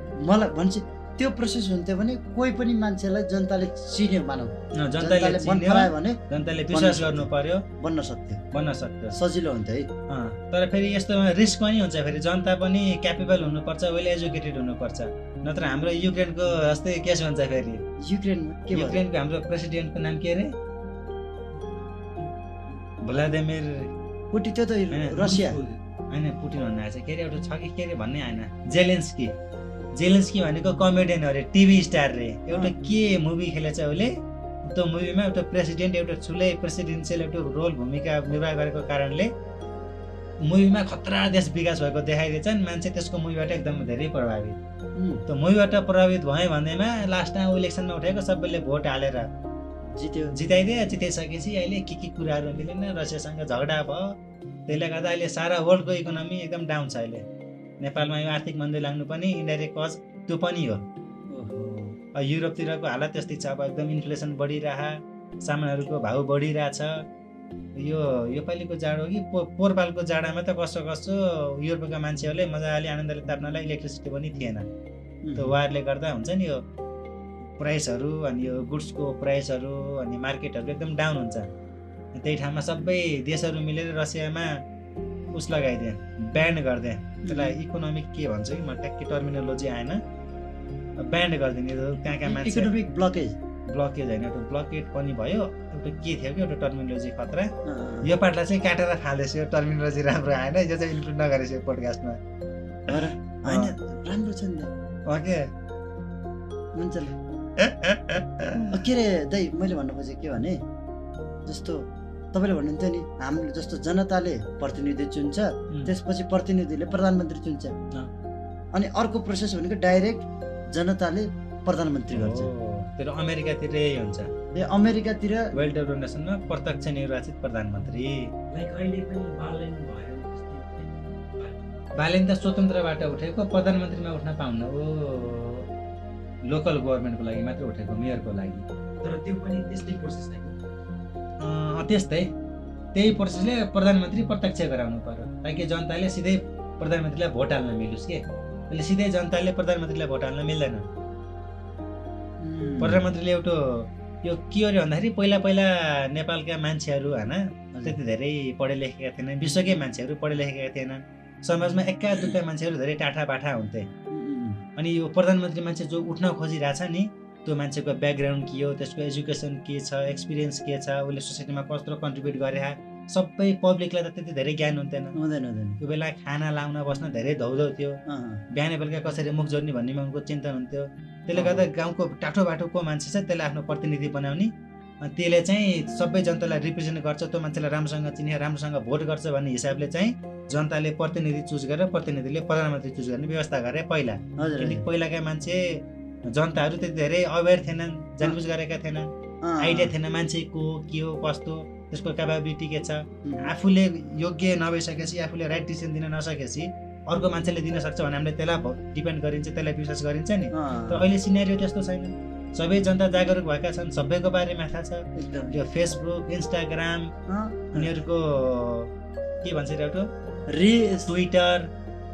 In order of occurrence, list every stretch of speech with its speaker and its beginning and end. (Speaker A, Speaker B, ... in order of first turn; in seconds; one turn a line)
Speaker A: 0.2-7.3
Speaker B: 4.8-7.7
Speaker A: 7.8-8.4
Speaker B: 8.5-9.2
Speaker A: 9.1-9.9
Speaker B: 10.1-17.8
Speaker A: 18.0-19.0
Speaker B: 18.7-20.6
Speaker B: 23.0-23.9
Speaker A: 24.3-25.6
Speaker B: 24.9-29.3
Speaker C: 25.3-25.6
Speaker B: 29.9-34.1
Speaker B: 34.6-39.3
Speaker B: 40.4-44.6
Speaker A: 45.0-45.2
Speaker B: 45.3-49.3
Speaker A: 49.9-50.4
Speaker B: 50.3-57.2
Speaker B: 57.8-60.8
Speaker A: 61.3-62.0
Speaker B: 62.1-67.1
Speaker B: 67.8-74.7
Speaker A: 75.2-75.6
Speaker B: 75.4-76.6
Speaker B: 77.6-81.5
Speaker B: 82.1-84.6
Speaker B: 85.3-90.0
Speaker A: 87.2-87.6
Speaker B: 91.0-92.7
Speaker A: 92.2-93.4
Speaker B: 93.7-102.2
Speaker A: 97.7-98.1
Speaker A: 102.9-104.7
Speaker B: 102.9-103.8
Speaker B: 105.1-105.5
Speaker A: 106.8-107.2
Speaker B: 107.6-108.7
Speaker A: 108.7-110.6
Speaker A: 111.5-117.8
Speaker A: 118.7-122.5
Speaker B: 122.1-124.3
Speaker A: 124.5-125.5
Speaker B: 125.5-128.3
Speaker C: 128.5-131.7
Speaker B: 131.9-135.7
Speaker B: 136.4-138.7
Speaker C: 139.0-140.6
Speaker B: 141.4-142.3
Speaker B: 142.9-150.9
Speaker A: 152.4-153.0
Speaker B: 152.8-163.9
Speaker A: 164.1-164.6
Speaker B: 164.8-175.2
Speaker A: 175.2-175.8
Speaker B: 175.8-217.1
Speaker A: 178.1-178.4
Speaker A: 181.3-181.7
Speaker A: 194.4-194.8
Speaker A: 199.4-199.9
Speaker A: 203.2-203.5
Speaker A: 210.5-211.1
Speaker A: 215.2-215.6
Speaker A: 217.3-218.0
Speaker B: 217.7-218.9
Speaker B: 219.4-220.1
Speaker A: 220.5-221.2
Speaker B: 221.1-221.7